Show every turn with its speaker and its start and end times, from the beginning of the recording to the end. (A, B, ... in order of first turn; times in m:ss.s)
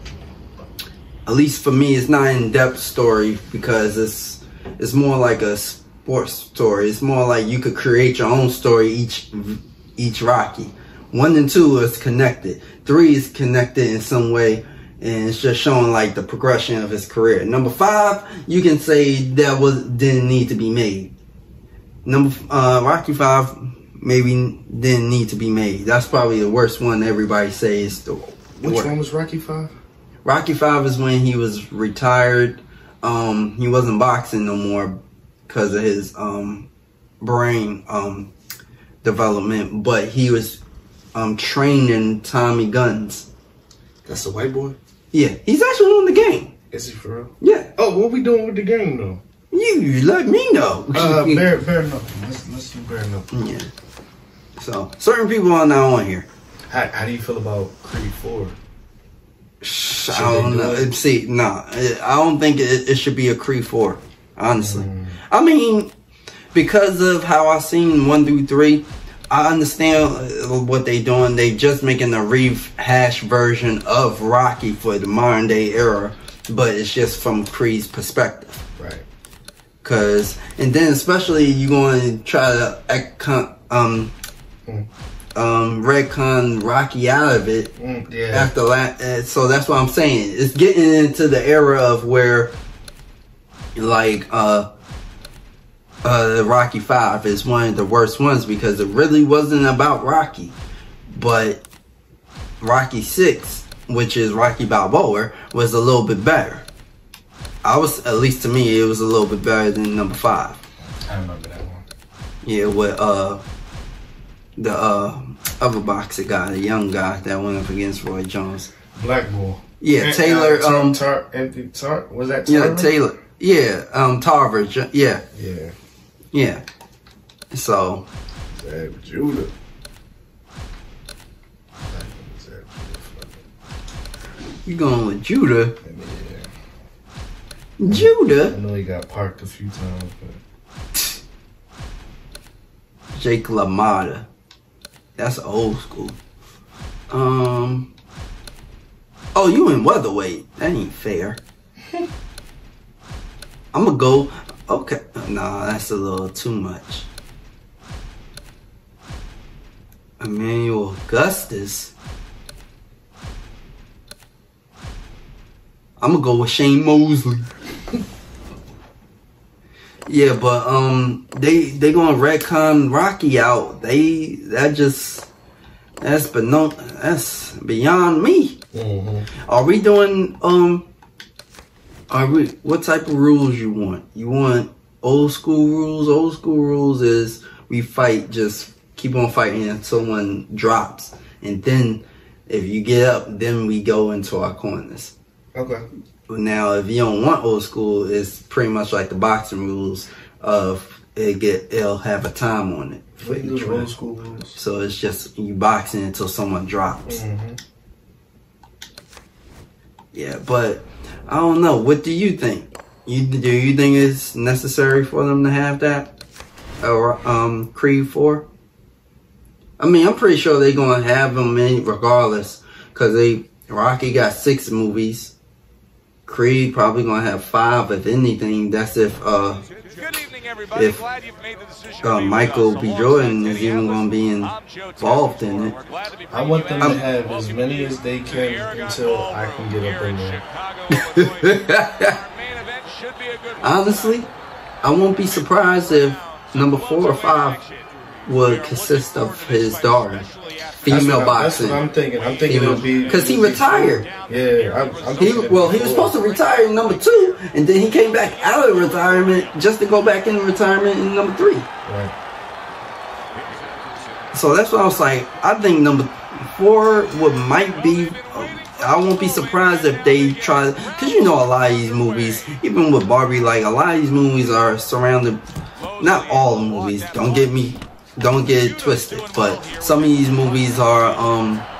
0:01.2-0:21.1 A
0:22.0-0:28.9 A
0:28.6-0:29.7 B
0:30.2-0:36.7 A
0:37.2-0:38.3 A
0:39.0-0:40.6 A
0:41.1-0:43.3 A
0:44.0-0:44.8 B
0:45.1-0:46.5 A
0:46.7-0:49.2 B
0:47.4-0:47.7 A
0:49.5-0:51.4 A
0:50.9-0:53.3 B
0:53.3-0:53.7 A
0:54.6-0:56.3 A
0:56.7-0:58.6 B
0:59.6-1:05.9 A
1:00.1-1:00.9 B
1:04.5-1:05.2 B
1:06.5-1:18.6 A
1:18.8-1:19.0 B
1:19.8-1:24.1 A
1:25.3-1:27.7 A
1:27.8-1:28.5 B
1:28.3-1:32.6 A
1:33.7-1:34.7 A
1:36.0-1:40.6 A
1:41.1-1:41.6 A
1:42.6-1:46.6 A
1:47.6-1:50.6 A
1:51.0-1:51.8 B
1:52.4-1:53.4 A
1:54.6-1:58.7 A
1:58.9-2:02.9 B
1:59.8-2:01.0 A
2:02.5-2:05.2 A
2:05.3-2:05.7 B
2:06.3-2:06.6 A
2:07.5-2:08.1 A
2:08.5-2:09.5 B
2:11.9-2:13.4 B
2:14.6-2:15.8 A
2:15.8-2:16.5 B
2:17.8-2:18.5 A
2:17.9-2:20.4 B
2:23.1-2:24.3 A
2:25.2-2:26.2 A
2:27.1-2:27.9 A
2:29.3-2:31.4 A
2:33.7-2:37.1 A
2:40.2-2:41.9 A
2:46.0-2:47.5 A
2:50.1-2:55.3 A
2:56.0-2:58.6 A
2:58.7-2:59.3 B
2:59.5-3:00.8 A
3:02.1-3:15.1 A
3:15.5-3:15.9 B
3:16.3-3:23.9 A
3:23.2-3:24.6 B
3:24.6-3:27.2 A
3:27.1-3:27.6 B
3:30.1-3:36.1 A
3:36.8-3:38.5 A
3:39.8-3:45.3 A
3:46.3-3:49.6 A
3:49.7-4:04.2 C
3:50.7-3:51.0 A
3:52.0-3:55.7 A
3:56.3-4:00.4 B
4:00.9-4:02.2 A
4:03.6-4:04.3 A
4:04.8-4:07.6 A
4:05.9-4:11.2 C
4:08.2-4:10.2 A
4:10.8-4:11.8 A
4:10.9-4:16.2 B
4:11.7-4:16.9 C
4:12.5-4:14.1 A
4:15.2-4:21.7 A
4:18.1-4:19.6 C
4:21.8-4:22.1 B
4:23.3-4:24.2 C
4:24.3-4:35.4 A
4:35.8-4:37.7 C
4:36.0-4:41.7 A
4:38.4-4:41.2 C